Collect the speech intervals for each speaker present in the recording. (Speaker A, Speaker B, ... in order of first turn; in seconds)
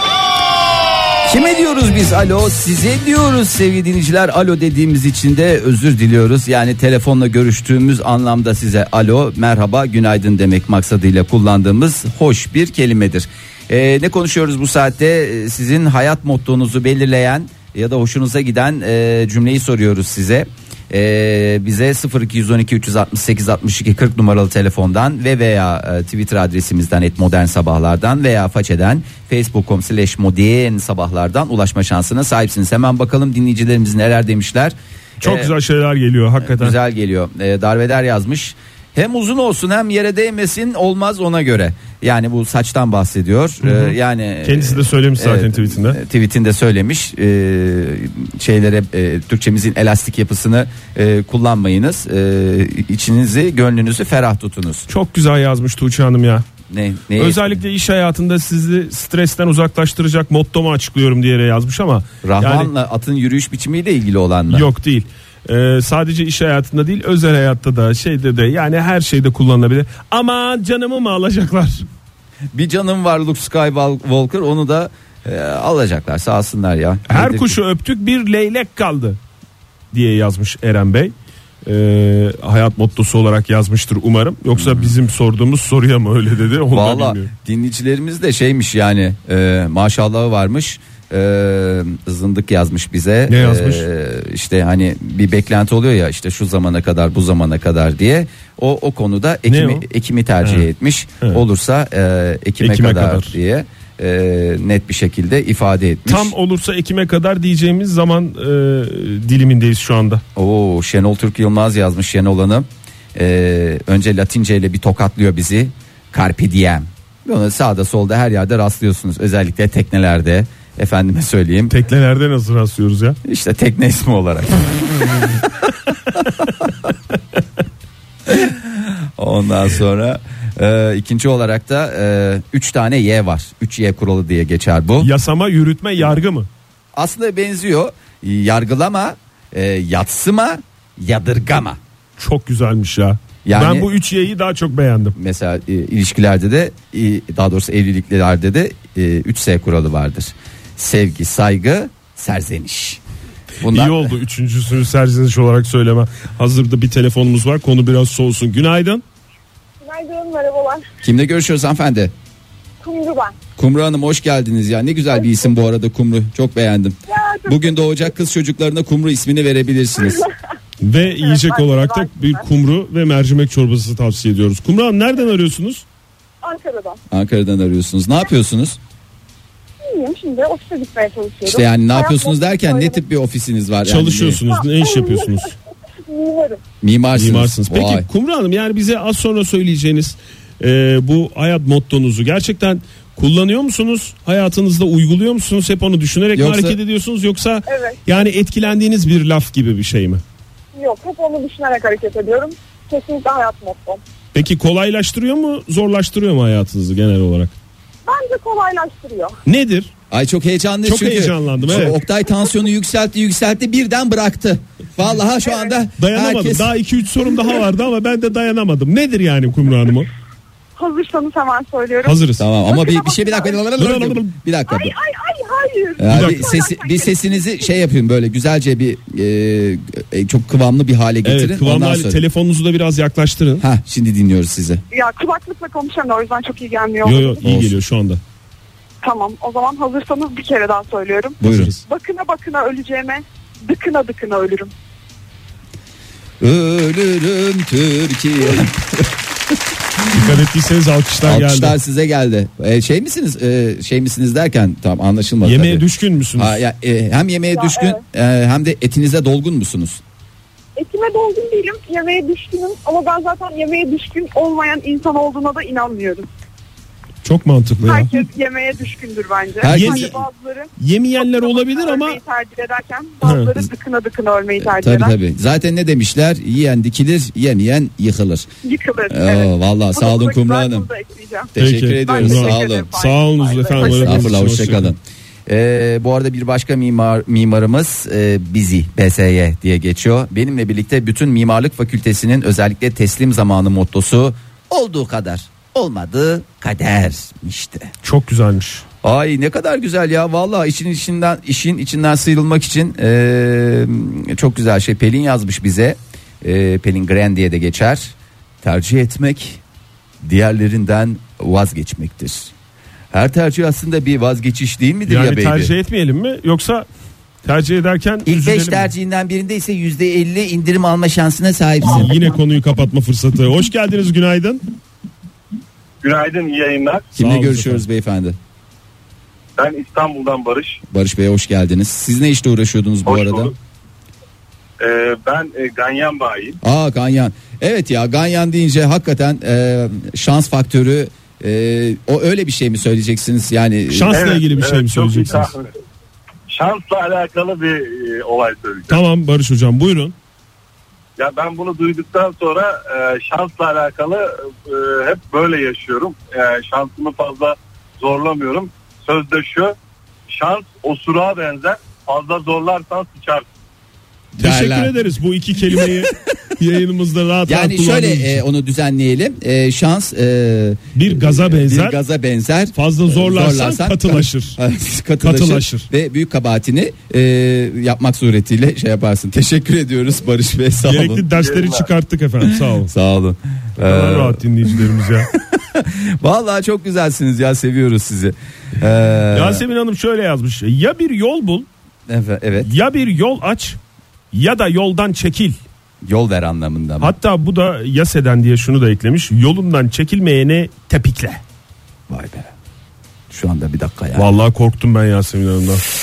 Speaker A: 1.2-35.5, 36.4-54.9, 56.7-57.6, 62.2-64.7, 72.5-77.6, 84.5-84.9, 86.7-106.3, 110.3-121.7, 123.2-125.4, 126.1-126.9, 128.2-135.1, 136.9-141.8, 143.4-143.9, 145.2-153.0, 153.6-154.1, 161.0-162.1, 163.6-170.2, 177.1-178.8, 181.4-184.4, 186.8-188.1, 196.3-196.8, 210.1-216.7, 222.4-224.9, 226.0-232.2, 233.6-234.8, 237.4-237.7, 241.4-241.7, 246.4-249.2, 250.0-250.3, 251.2-255.8, 256.4-260.0, 269.6-270.2, 274.6-278.5, 279.1-280.9, 281.6-282.9, 283.8-297.9, 299.0-309.6, 310.2-312.5, 313.1-315.7, 318.2-322.2, 327.1-328.4, 330.9-333.5, 336.6-344.2, 364.4-364.9, 365.7-366.0, 367.4-381.2, 382.4-389.6, 392.1-392.7, 396.0-397.1, 402.1-402.5, 403.3-404.3
Speaker B: 35.2-36.8, 43.6-46.0, 54.9-56.5, 57.1-62.7, 64.5-71.8, 77.1-79.2, 79.9-81.1, 81.6-87.3, 93.3-93.8, 99.5-99.8, 100.4-100.7, 102.6-103.3, 106.1-110.2, 121.7-123.2, 135.0-136.5, 142.2-145.2, 153.7-159.0, 170.8-175.8, 183.8-185.5, 187.1-200.2, 204.3-207.5, 209.4-209.9, 210.8-212.0, 216.0-220.1, 222.0-222.4, 223.8-224.4, 226.1-226.4, 231.2-233.6, 237.0-238.2, 241.4-241.8, 250.1-251.8, 255.4-256.6, 267.2-268.1, 269.6-270.2, 270.8-272.2, 273.2-273.5, 281.6-284.9, 298.0-298.8, 315.1-316.9, 317.4-318.9, 321.9-324.6, 327.2-327.8, 343.9-345.5, 348.9-350.1, 364.4-368.4, 370.9-372.0, 372.7-374.6, 375.2-375.9, 380.8-382.9, 383.8-385.3, 389.3-391.7, 392.6-393.8, 394.3-395.6, 397.0-401.4, 404.1-405.8
Speaker C: 159.8-160.8, 162.8-163.3, 167.1-168.0, 170.0-170.3, 171.1-172.4, 176.4-177.0, 179.8-183.0, 184.5-185.5, 186.0-186.6, 197.7-198.0, 200.7-204.0, 208.1-209.4, 215.4-215.7, 220.8-223.6, 224.7-227.7, 234.9-237.6, 239.0-244.7, 257.5-258.0, 260.8-266.3, 267.8-275.1, 278.6-284.3
Speaker D: 326.0-327.1, 329.6-330.8, 333.1-333.5, 334.8-336.6, 344.1-345.7, 346.5-349.0, 351.2-359.7, 360.3-363.5, 381.3-381.9